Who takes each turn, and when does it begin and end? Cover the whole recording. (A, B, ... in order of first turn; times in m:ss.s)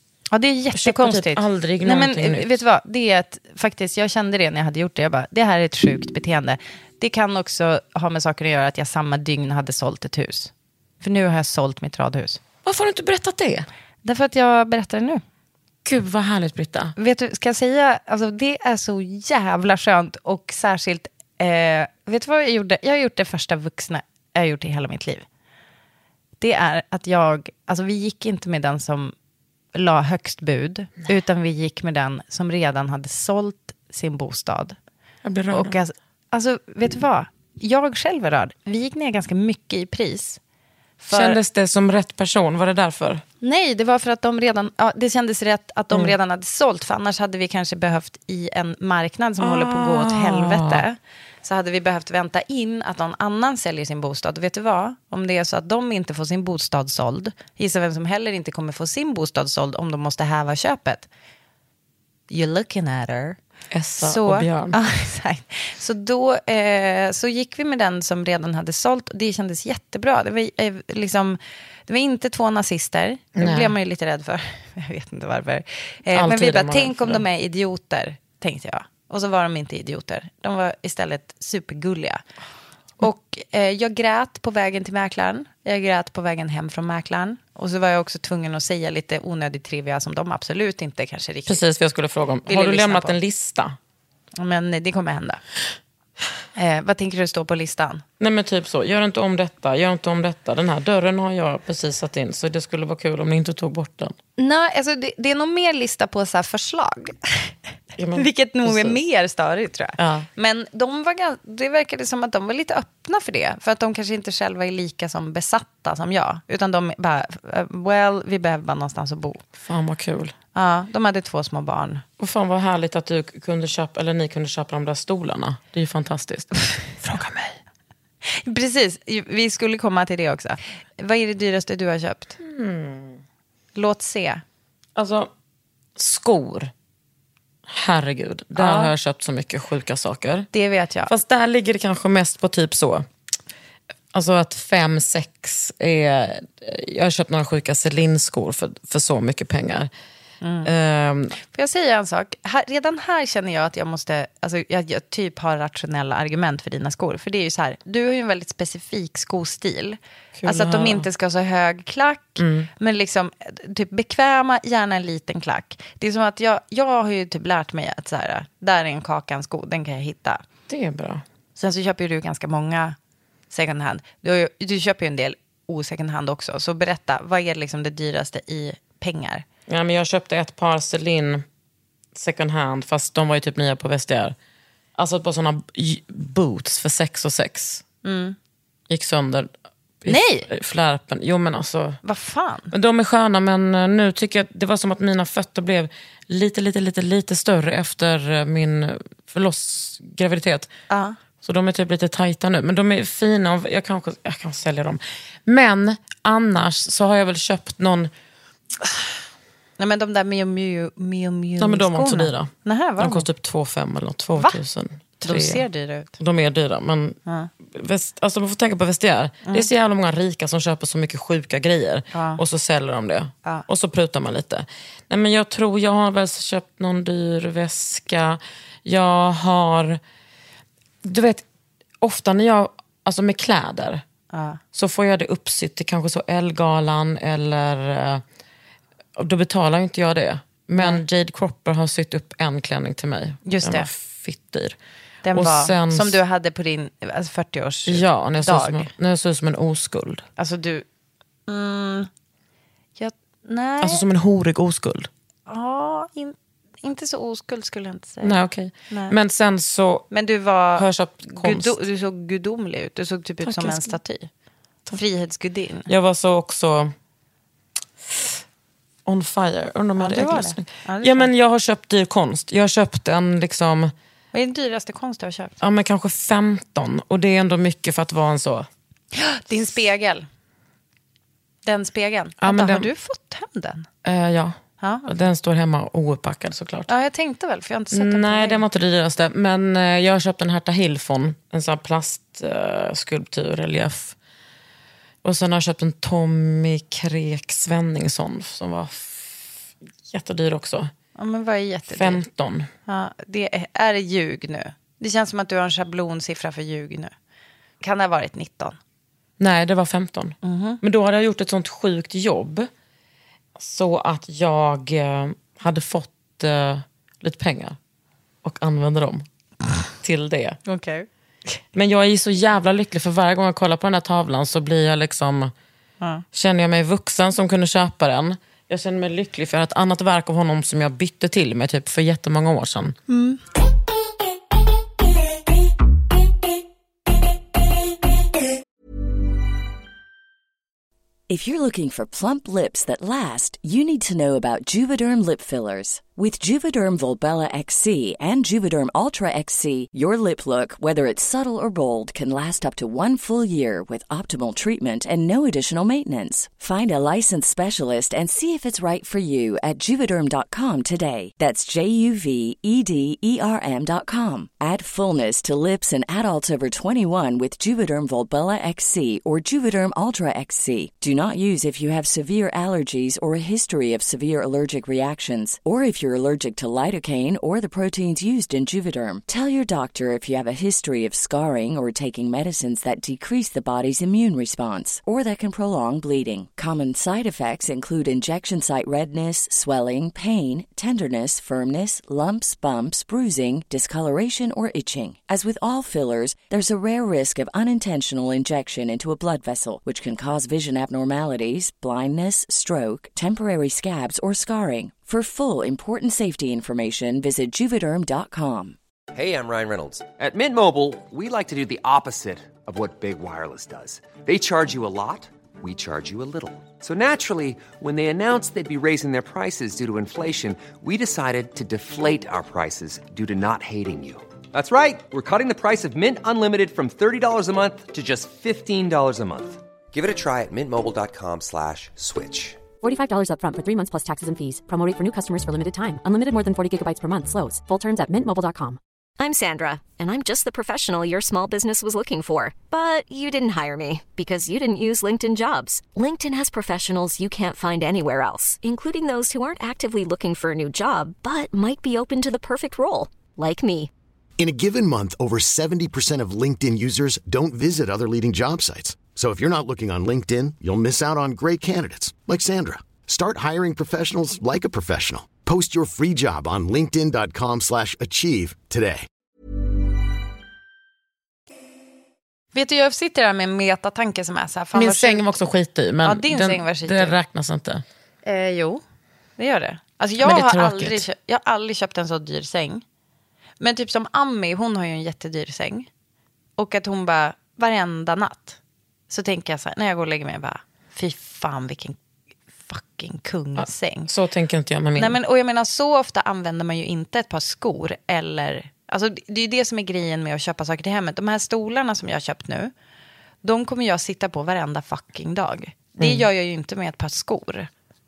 0:00.3-0:12.4 A
0:00.7-0:02.6 B
0:12.6-0:13.7 B
0:14.0-0:15.2 A
0:15.8-0:16.9 B
0:17.0-0:25.2 A
0:26.4-0:29.1 A
0:29.7-0:34.8 A
0:35.2-0:35.7 B
0:35.5-0:40.4 A
0:41.0-0:41.4 A
0:41.1-0:43.2 B
0:43.4-1:01.1 A
0:49.4-0:50.8 B
1:02.3-1:03.4 A
1:03.7-1:04.8 B
1:04.0-1:22.2 A
1:13.4-1:13.7 B
1:16.1-1:17.2 B
1:23.0-1:31.6 A
1:31.5-1:33.8 B
1:32.5-1:33.1 A
1:34.4-1:35.4 A
1:36.6-1:38.0 A
1:38.2-1:44.2 B
1:44.4-1:47.5 A
1:48.0-1:49.0 B
1:48.1-1:59.4 A
1:50.0-1:50.3 B
1:59.6-2:00.3 B
2:00.5-2:02.0 A
2:02.2-2:07.6 B
2:08.3-2:12.4 A
2:12.4-2:13.2 B
2:13.7-2:14.4 A
2:15.0-2:15.3 B
2:16.0-2:16.7 B
2:17.7-2:20.5 B
2:18.6-2:18.9 A
2:20.5-2:21.1 A
2:21.1-2:23.1 B
2:24.1-2:29.9 B
2:30.4-2:30.7 A
2:30.6-2:31.4 B
2:31.5-2:50.4 A
2:40.3-2:41.0 B
2:42.4-2:42.7 B
2:50.7-2:51.2 B
2:51.6-2:53.0 A
2:53.5-2:59.4 A
2:59.7-3:01.4 B
3:02.1-3:04.3 B
3:05.0-3:07.8 B
3:08.0-3:08.4 A
3:08.9-3:09.5 B
3:10.0-3:12.0 B
3:10.1-3:10.5 A
3:12.0-3:12.7 A
3:12.7-3:20.7 B
3:20.9-3:21.2 A
3:21.4-3:28.1 B
3:29.8-3:33.2 A
3:31.6-3:35.6 B
3:35.2-3:36.1 A
3:36.2-3:50.0 B
3:42.1-3:42.4 A
3:51.0-3:51.4 B
3:52.0-3:54.0 B
3:54.3-3:54.6 A
3:54.7-3:58.2 B
3:59.2-4:04.8 B
4:00.8-4:01.0 A
4:03.4-4:03.9 A
4:05.2-4:08.9 A
4:05.3-4:06.2 B
4:07.9-4:10.2 B
4:10.4-4:10.8 A
4:11.5-4:12.1 A
4:13.0-4:14.0 A
4:13.8-4:15.1 B
4:15.5-4:18.4 A
4:18.2-4:20.1 B
4:18.9-4:19.1 A
4:20.1-4:24.3 A
4:20.8-4:21.8 B
4:23.4-4:23.9 B
4:24.9-4:25.9 A
4:25.9-4:26.9 B
4:28.0-4:28.4 B
4:29.0-4:33.9 B
4:30.0-4:31.3 A
4:34.3-4:35.5 A
4:35.6-4:38.7 B
4:39.1-4:40.3 A
4:41.6-4:43.9 A
4:42.4-4:42.9 B
4:44.0-4:46.9 B
4:44.8-4:45.0 A
4:46.9-4:48.6 A
4:47.9-4:54.2 B
4:55.2-4:59.5 B
5:00.0-5:00.9 B
5:01.2-5:02.2 A
5:01.9-5:02.7 B
5:02.9-5:07.1 A
5:07.8-5:08.8 A
5:09.4-5:12.7 B
5:10.4-5:10.8 A
5:13.6-5:17.8 B
5:18.4-5:19.2 B
5:20.0-5:20.6 B
5:20.7-5:21.1 A
5:21.7-5:25.5 B
5:26.3-5:33.0 B
5:33.1-5:33.4 A
5:41.3-6:48.8 C
6:49.1-7:12.7 D
7:12.8-7:18.8 E
7:19.2-7:33.9 F
7:34.4-7:49.1 G
7:52.5-7:55.4 A
7:54.7-7:57.8 B
7:56.0-7:57.2 A
7:58.2-7:58.8 A
7:59.4-8:02.8 A
8:00.2-8:01.0 B
8:03.6-8:05.9 A
8:06.6-8:08.6 A
8:09.1-8:12.0 A
8:12.6-8:14.1 A
8:13.6-8:15.2 B
8:15.0-8:22.7 A
8:23.4-8:27.7 A
8:26.0-8:26.2 B